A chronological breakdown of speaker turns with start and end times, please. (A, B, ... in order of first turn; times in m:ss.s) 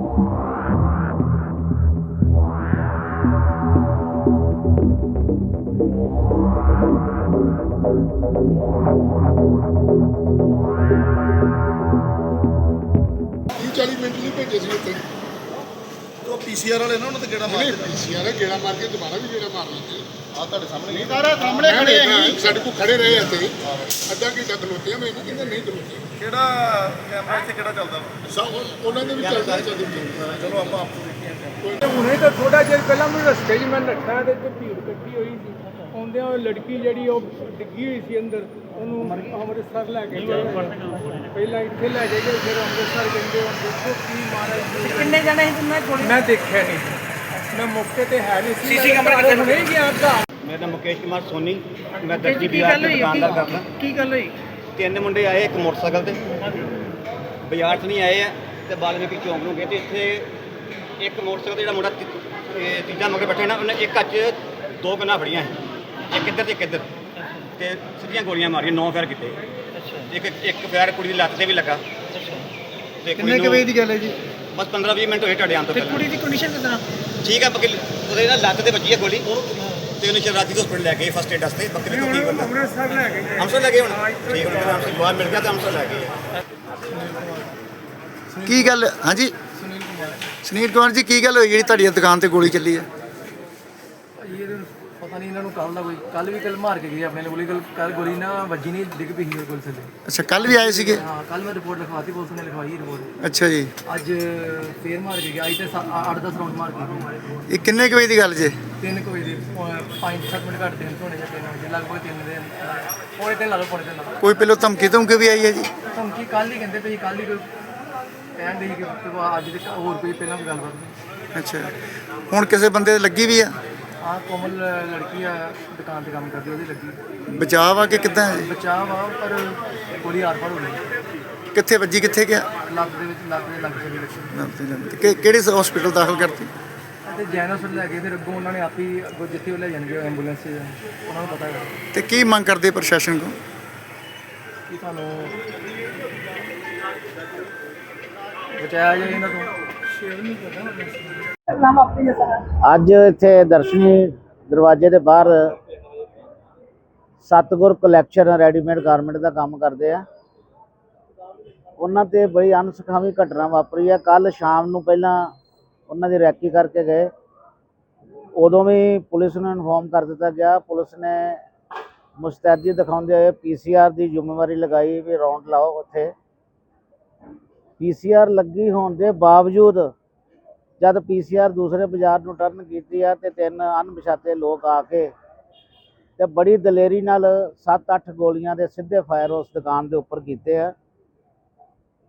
0:13.6-0:15.0 A
0:16.2-0:17.9 B
0:17.4-0:20.0 A
0:20.3-0:23.2 B
0:20.9-0:26.1 A
0:26.2-0:28.2 B
0:28.2-0:30.3 A
0:30.3-0:31.1 B
0:31.6-0:32.0 A
0:31.8-0:45.3 C
0:44.9-0:46.1 D
0:46.0-0:50.2 C
0:48.7-0:49.6 D
0:50.4-0:53.7 E
0:52.1-0:54.3 D
0:54.8-0:56.2 E
0:57.4-1:00.3 E
1:01.0-1:05.6 E
1:06.1-1:06.9 E
1:07.6-1:09.4 E
1:10.1-1:11.8 E
1:13.0-1:13.7 E
1:13.2-1:14.1 F
1:14.5-1:16.1 E
1:15.7-1:16.8 D
1:17.2-1:19.3 E
1:20.0-1:22.5 E
1:21.9-1:23.5 C
1:23.4-1:26.1 E
1:26.9-1:27.4 G
1:28.3-1:28.7 G
1:28.5-1:29.3 F
1:29.5-1:30.2 G
1:30.4-1:32.9 F
1:34.2-1:43.1 G
1:40.0-1:41.0 F
1:43.2-1:43.7 F
1:43.8-1:47.2 G
1:47.5-1:48.6 F
1:48.8-1:54.2 G
1:54.2-1:55.7 F
1:55.8-1:57.5 G
1:58.3-2:00.9 G
2:01.3-2:01.7 F
2:02.3-2:03.6 F
2:04.0-2:07.0 G
2:07.3-2:08.5 F
2:08.3-2:10.8 G
2:11.5-2:12.5 F
2:12.6-2:14.3 G
2:14.3-2:16.5 F
2:17.0-2:21.7 G
2:21.9-2:23.4 F
2:24.7-2:25.4 G
2:28.6-2:29.5 G
2:30.1-2:30.9 C
2:32.5-2:35.5 H
2:37.2-2:40.0 H
2:41.8-2:45.3 H
2:45.9-2:47.1 H
2:48.4-2:51.4 H
2:52.2-2:56.1 H
2:57.8-2:59.9 H
3:00.8-3:05.1 H
3:06.2-3:10.7 H